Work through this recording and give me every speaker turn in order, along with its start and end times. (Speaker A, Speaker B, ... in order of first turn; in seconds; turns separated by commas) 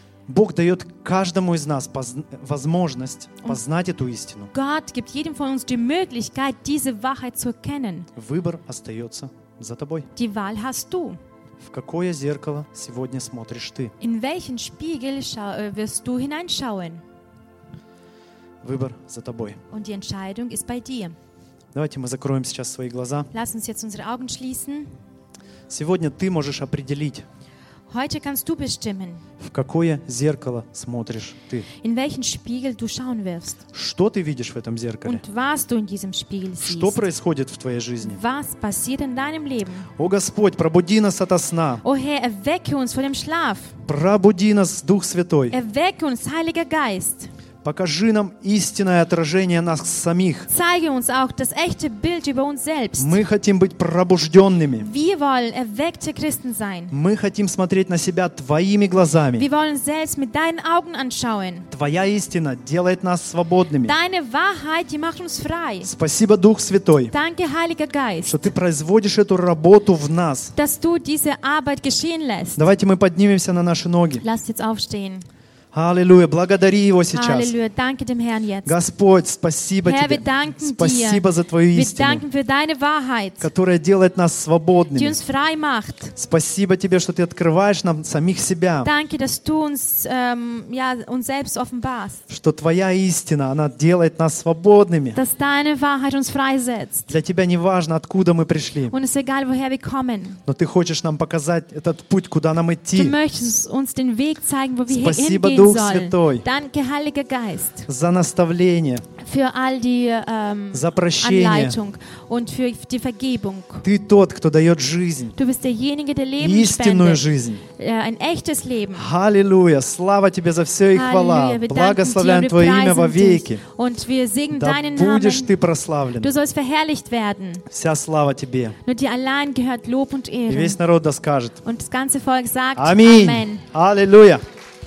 Speaker A: 0.3-4.5, Speaker B: 4.5-8.1, Speaker A: 8.1-10.1, Speaker B: 10.2-11.2, Speaker A: 11.6-13.9, Speaker B: 14.0-17.0, Speaker A: 18.6-19.6, Speaker B: 19.7-21.1, Speaker A: 21.7-23.3, Speaker B: 23.3-24.9, Speaker A: 25.7-27.2, Speaker B: 27.9-29.2, Speaker A: 29.4-31.7, Speaker B: 31.8-33.6, Speaker A: 33.7-35.2, Speaker B: 35.0-37.0, Speaker A: 36.6-38.2, Speaker B: 38.0-39.9, Speaker A: 40.0-41.8, Speaker B: 41.8-43.8, Speaker A: 43.9-45.5, Speaker B: 45.5-47.3, Speaker A: 47.6-50.5, Speaker B: 50.5-53.2, Speaker A: 53.0-54.9, Speaker B: 54.8-56.9, Speaker A: 56.9-59.5, Speaker B: 59.4-61.7, Speaker A: 61.7-64.0, Speaker B: 63.8-65.9, Speaker A: 65.8-67.1, Speaker B: 67.1-68.5, Speaker A: 68.3-70.5, Speaker B: 70.5-72.7, Speaker A: 72.6-74.2, Speaker B: 74.2-75.3, Speaker A: 75.7-77.5, Speaker B: 77.1-78.8, Speaker A: 78.7-82.2, Speaker B: 79.8-83.5, Speaker A: 83.4-85.2, Speaker B: 84.9-86.1, Speaker A: 86.2-88.9, Speaker B: 88.8-92.2, Speaker A: 92.3-95.2, Speaker B: 95.1-97.1, Speaker A: 97.1-99.0, Speaker B: 98.9-100.4, Speaker A: 100.5-103.2, Speaker B: 102.9-107.9, Speaker A: 104.9-106.5, Speaker A: 107.9-109.0, Speaker B: 109.2-113.8, Speaker A: 110.7-111.8, Speaker A: 113.8-115.4, Speaker B: 115.4-119.1, Speaker A: 116.4-117.6, Speaker A: 119.0-123.6, Speaker B: 120.9-125.5, Speaker A: 124.5-126.3, Speaker B: 126.2-127.7, Speaker A: 127.7-128.8, Speaker B: 128.8-130.8, Speaker A: 130.5-131.6, Speaker B: 131.6-133.7, Speaker A: 132.8-134.4